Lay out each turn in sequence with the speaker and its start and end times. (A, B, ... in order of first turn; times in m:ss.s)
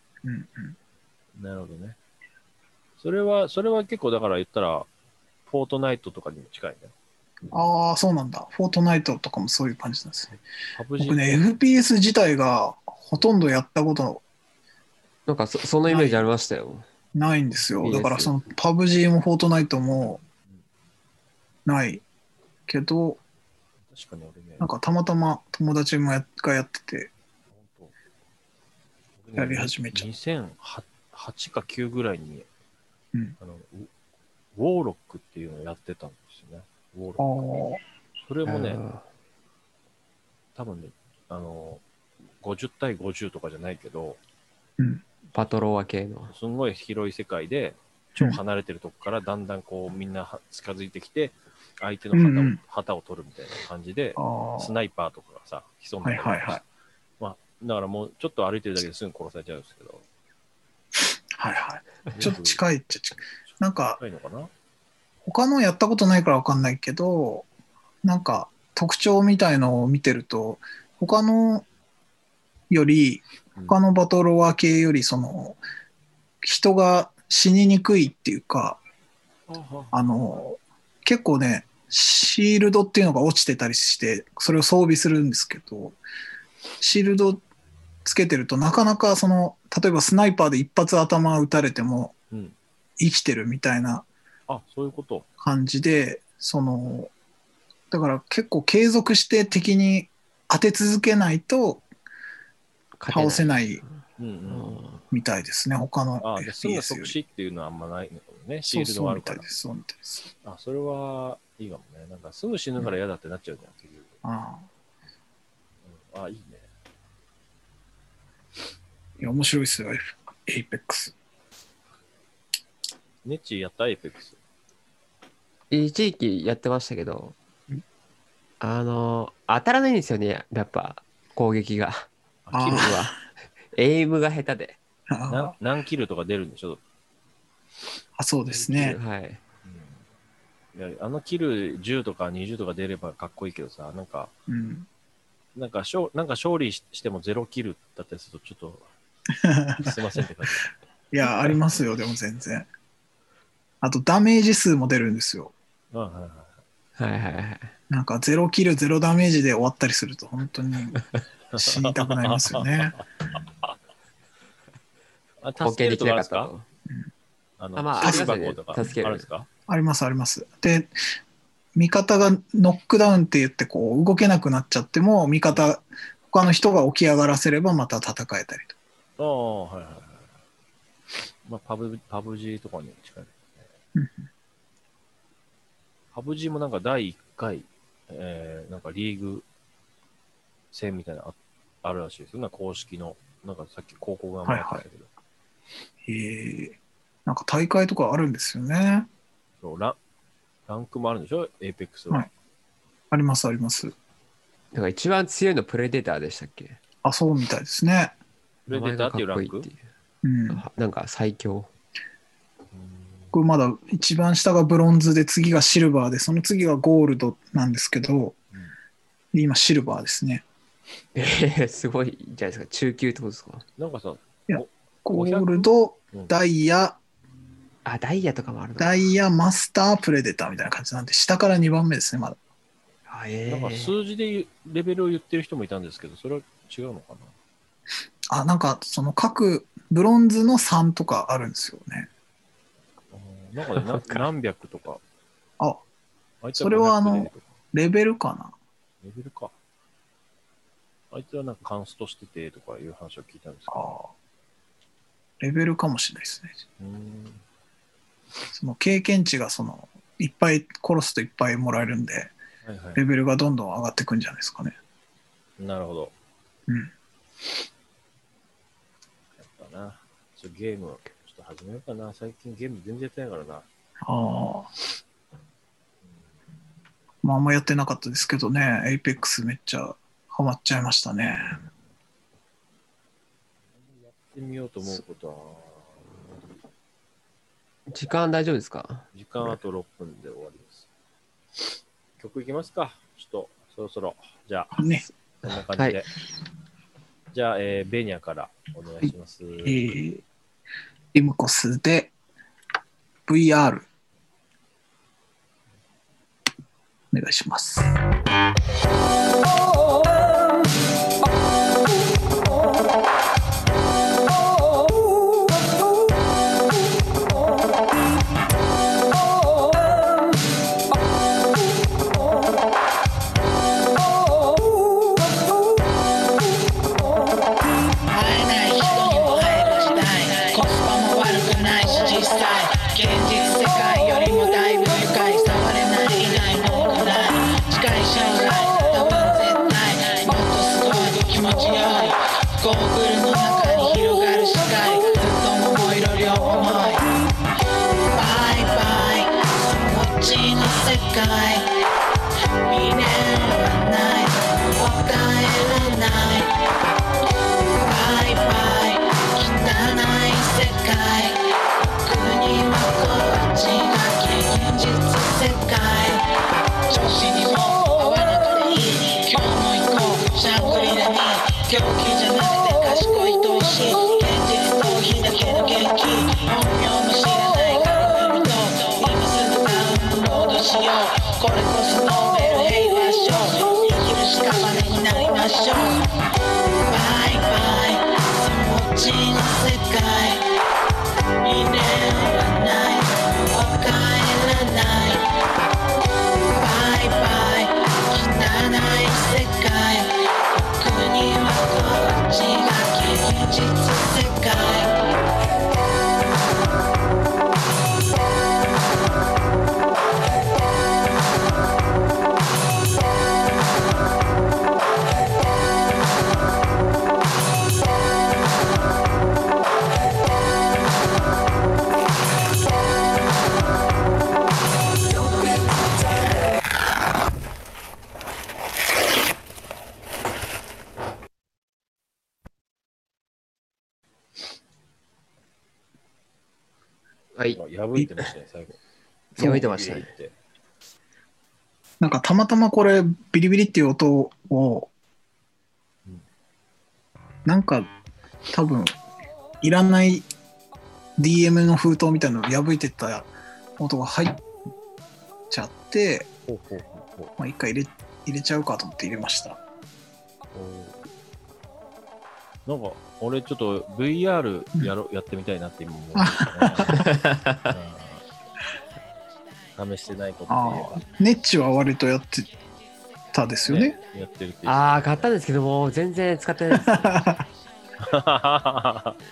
0:00.2-0:00.8 A
0:01.4-0:02.0 B
0:03.0-0:04.9 B
0:05.5-0:06.9 B
0:07.5-0:10.3 A
0:10.7-0:11.4 B
0:11.0-0:14.2 A
0:15.3-0:16.8 C
0:15.9-0:16.2 A
0:17.1-0:20.2 A
0:17.8-0:18.3 C
0:21.6-0:22.0 A
0:22.7-0:23.2 A
0:23.9-0:24.7 B
0:24.6-0:27.1 A
0:27.5-0:27.9 B
0:29.2-0:32.5 B
0:29.4-0:30.1 A
0:33.4-0:33.9 B
0:34.5-0:37.4 B
0:37.2-0:37.8 A
0:38.2-0:38.8 B
0:38.5-0:39.0 C
0:40.5-0:41.8 B
0:42.4-0:44.2 B
0:44.8-0:45.0 A
0:45.3-0:46.3 C
0:46.3-0:56.6 B
0:52.1-0:52.6 A
0:54.2-0:54.7 A
0:56.0-0:56.6 A
0:57.2-1:00.0 B
1:01.3-1:04.0 A
1:02.1-1:02.6 B
1:04.0-1:04.5 B
1:05.2-1:07.5 A
1:08.0-1:11.6 A
1:12.7-1:15.6 A
1:16.4-1:18.8 A
1:19.5-1:20.0 B
1:19.9-1:26.0 A
1:26.8-1:27.4 A
1:28.0-1:32.1 A
1:33.0-1:34.0 A
1:34.5-1:35.2 B
1:35.4-1:37.1 A
1:37.9-1:41.8 A
1:43.0-1:43.8 C
1:43.1-1:43.8 A
1:44.2-1:44.8 B
1:44.5-1:45.0 C
1:45.1-1:47.2 A
1:46.2-1:49.5 B
1:48.6-1:50.3 A
1:50.4-1:54.2 B
1:54.2-1:54.7 A
1:55.8-1:56.7 B
1:59.2-2:01.1 A
2:03.2-2:04.4 B
2:05.7-2:07.4 C
2:08.6-2:12.1 C
2:12.5-2:13.0 B
2:12.5-2:13.1 A
2:12.6-2:13.2 C
2:13.7-2:14.8 C
2:15.1-2:15.5 A
2:15.3-2:16.8 B
2:18.2-2:19.0 A
2:18.5-2:19.4 C
2:19.6-2:20.0 B
2:20.7-2:24.3 B
2:24.5-2:24.9 A
2:25.5-2:28.9 B
2:29.4-2:30.0 A
2:29.8-2:30.7 B
2:31.1-2:32.7 A
2:33.8-2:35.5 A
2:35.9-2:36.6 B
2:37.0-2:37.7 C
2:37.9-2:41.0 A
2:41.5-2:43.8 B
2:41.6-2:43.0 A
2:45.4-2:46.5 B
2:45.6-2:46.6 C
2:47.6-2:49.5 B
2:47.8-2:49.2 C
2:48.0-2:48.3 A
2:49.7-2:50.9 A
2:51.8-2:58.8 A
2:59.2-3:00.3 B
3:01.4-3:03.7 B
3:04.0-3:04.3 A
3:06.1-3:09.4 B
3:10.7-3:15.1 B
3:14.4-3:14.8 A
3:16.0-3:19.1 A
3:19.6-3:20.0 B
3:20.7-3:22.3 B
3:23.1-3:23.9 A
3:24.7-3:26.8 C
3:27.0-3:28.1 A
3:28.7-3:29.7 B
3:28.7-3:29.8 C
3:30.2-3:30.6 A
3:30.5-3:31.7 C
3:32.7-3:33.3 B
3:33.3-3:38.4 A
3:39.3-3:40.4 A
3:41.1-3:43.6 C
3:43.8-3:46.3 B
3:44.5-3:47.0 A
3:47.8-3:49.0 C
3:48.8-3:52.4 A
3:53.1-3:54.0 C
3:53.5-3:57.3 B
3:58.3-4:02.1 A
4:03.1-4:05.0 B
4:06.4-4:07.5 B
4:06.6-4:08.5 A
4:09.0-4:09.5 B
4:11.1-4:14.0 B
4:13.7-4:14.1 A
4:15.4-4:16.6 A
4:16.8-4:17.4 B
4:18.5-4:22.4 A
4:22.6-4:23.0 B
4:23.0-4:24.8 A
4:25.6-4:26.1 B
4:29.4-4:33.7 B
4:34.0-4:34.7 A
4:37.2-4:41.6 A
4:43.8-4:46.4 B
4:47.9-4:49.0 C
4:49.1-4:50.9 B
4:52.2-4:54.8 B
4:54.8-4:55.0 A
4:55.4-4:56.1 B
4:55.8-4:56.0 C
4:57.3-4:59.9 B
4:59.6-5:00.2 A
5:01.1-5:02.1 A
5:03.3-5:03.8 A
5:07.1-5:07.9 A
5:28.1-5:47.1 D
5:48.1-5:51.7 D
5:52.7-5:56.6 D
5:57.8-6:06.3 D
6:06.9-6:26.1 D
6:26.9-6:30.4 D
6:31.4-6:35.3 D
6:36.5-6:45.0 D
7:17.5-7:18.8 B
7:19.4-7:20.1 C
7:19.4-7:20.3 B
7:22.0-7:24.9 A
7:27.5-7:27.9 A
7:28.5-7:29.0 A
7:29.6-7:30.2 A
7:31.2-7:34.5 A
7:35.5-7:36.3 A
7:36.5-7:37.3 B
7:37.4-7:39.6 A
7:40.5-7:41.0 B
7:42.7-7:47.2 B
7:46.2-7:47.1 A
7:46.9-7:47.7 C
7:47.7-7:48.2 B
7:49.8-7:51.0 B
7:50.5-7:52.5 A
7:53.3-7:54.0 A
7:53.7-7:55.3 B
7:54.7-7:57.2 C
7:56.7-7:57.5 A
7:58.0-7:59.2 B